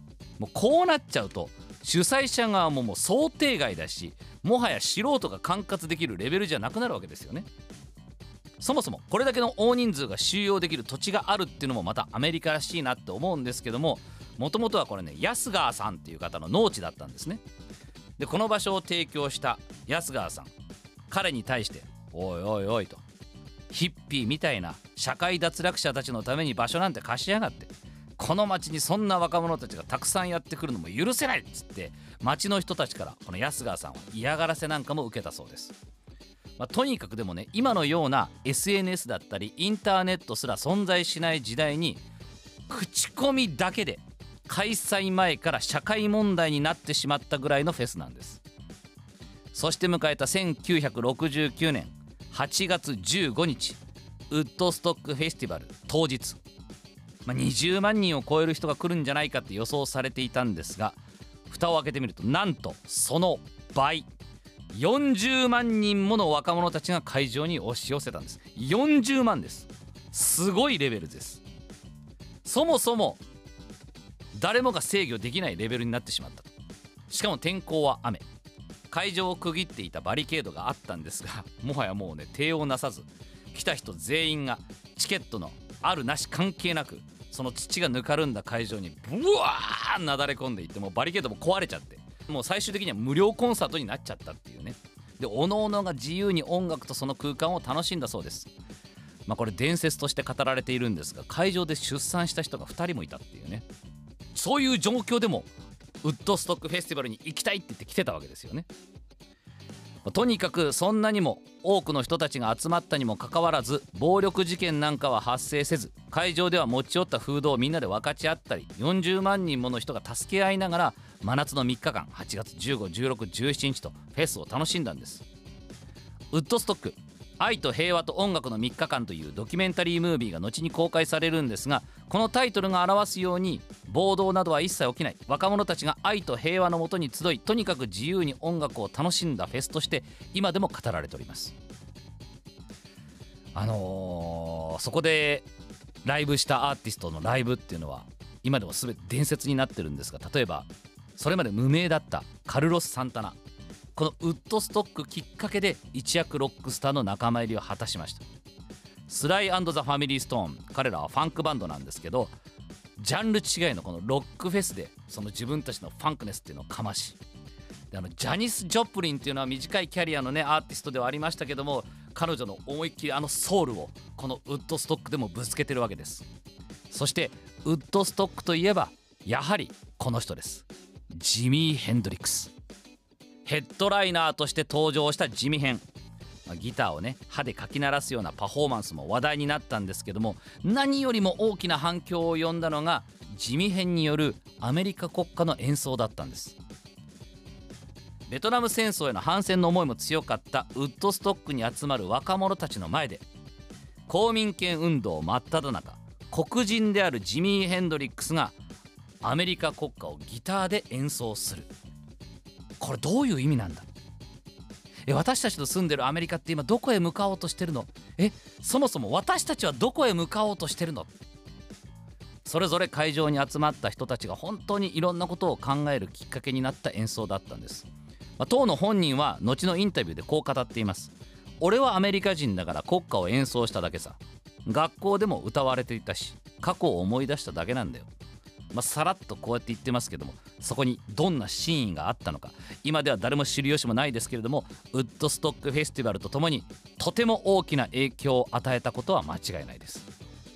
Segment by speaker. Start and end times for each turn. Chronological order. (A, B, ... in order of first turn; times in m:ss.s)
0:00.4-0:07.5 A
0:08.6-0:17.4 A
0:18.2-0:20.5 A
0:21.1-0:23.0 A
0:23.7-0:35.8 A
0:36.6-0:42.0 A
0:42.7-0:48.4 A
0:49.5-0:53.8 A
0:54.3-0:56.4 A
0:57.2-1:04.1 A
1:04.7-1:11.4 A
1:12.4-1:13.2 A
1:14.4-1:16.5 A
1:17.1-1:18.2 A
1:18.9-1:38.5 A
1:39.3-1:43.6 A
1:44.3-1:45.5 A
1:46.0-1:48.7 A
1:50.0-2:05.2 A
2:06.3-2:21.6 A
2:23.5-2:25.5 A
2:26.0-2:33.4 A
2:34.0-2:38.2 A
2:39.1-2:42.3 A
2:43.0-2:47.2 A
2:47.9-2:56.3 A
2:56.9-3:02.5 A
3:03.4-3:05.8 A
3:06.5-3:16.6 A
3:18.3-3:23.2 A
3:24.1-3:28.6 A
3:29.2-3:31.7 A
3:32.8-3:33.9 A
3:35.1-3:41.1 A
3:42.4-3:58.1 A
3:58.7-4:10.1 A